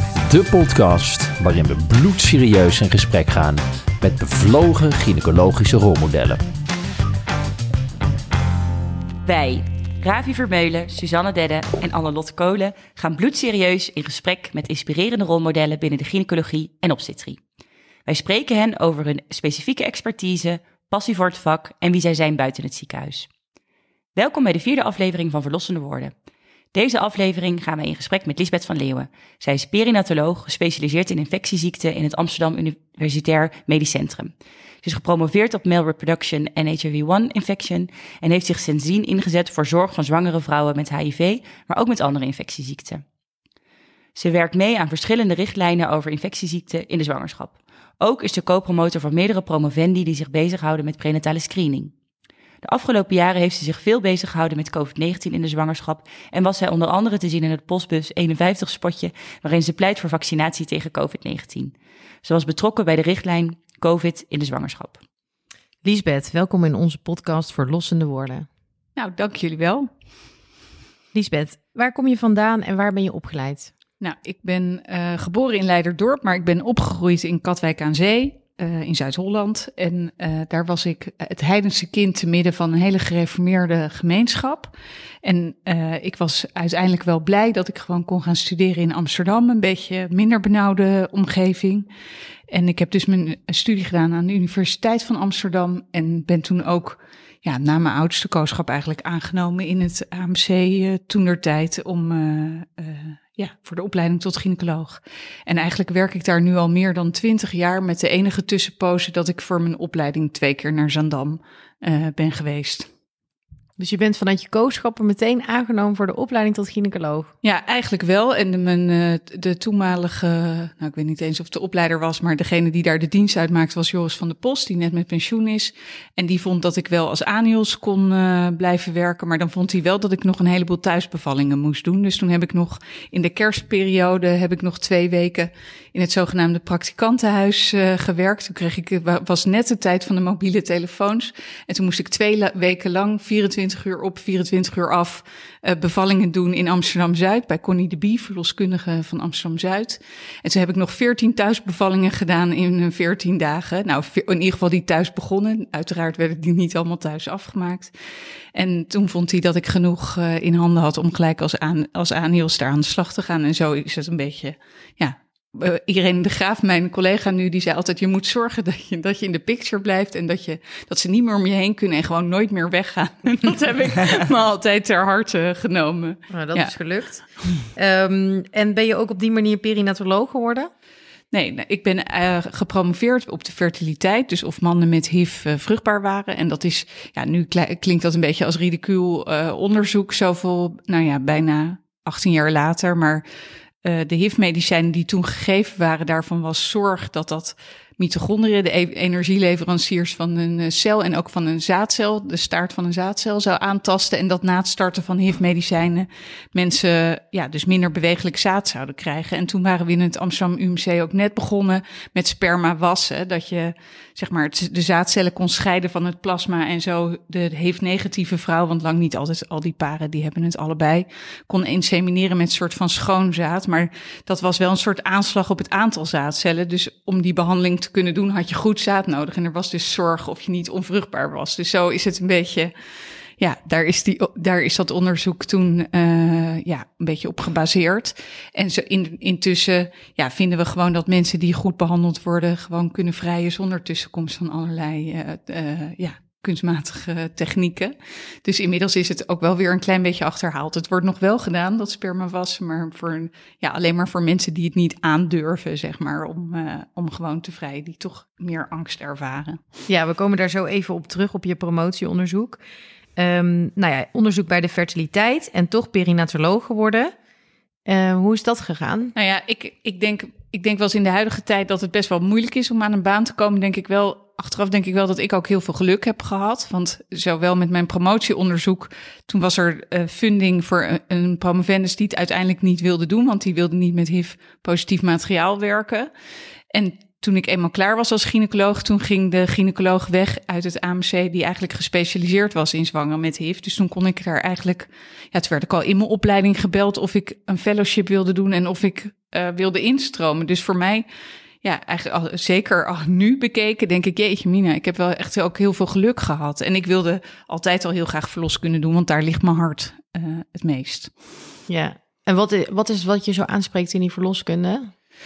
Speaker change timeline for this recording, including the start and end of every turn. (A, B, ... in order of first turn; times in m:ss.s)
0:00.3-0:06.4 A
0:09.2-0:17.4 B
0:18.0-0:23.3 B
0:24.1-0:26.1 B
0:26.7-0:43.0 B
0:44.2-0:51.9 B
0:52.6-1:05.0 B
1:05.8-1:08.5 C
1:09.0-1:09.9 D
1:11.1-1:13.7 C
1:14.0-1:31.9 D
1:32.5-1:52.9 D
1:53.8-1:57.3 C
1:57.4-2:37.9 D
2:38.5-2:56.7 D
2:56.3-2:57.2 C
2:57.7-3:00.7 C
3:01.3-3:13.2 D
3:13.8-3:52.7 D
3:53.4-4:19.6 D
4:19.9-4:22.6 C
4:23.2-4:27.1 C
4:27.8-4:29.1 C
4:29.2-4:46.1 D
4:46.7-5:01.0 D
5:01.6-5:11.1 D
5:11.7-5:14.9 C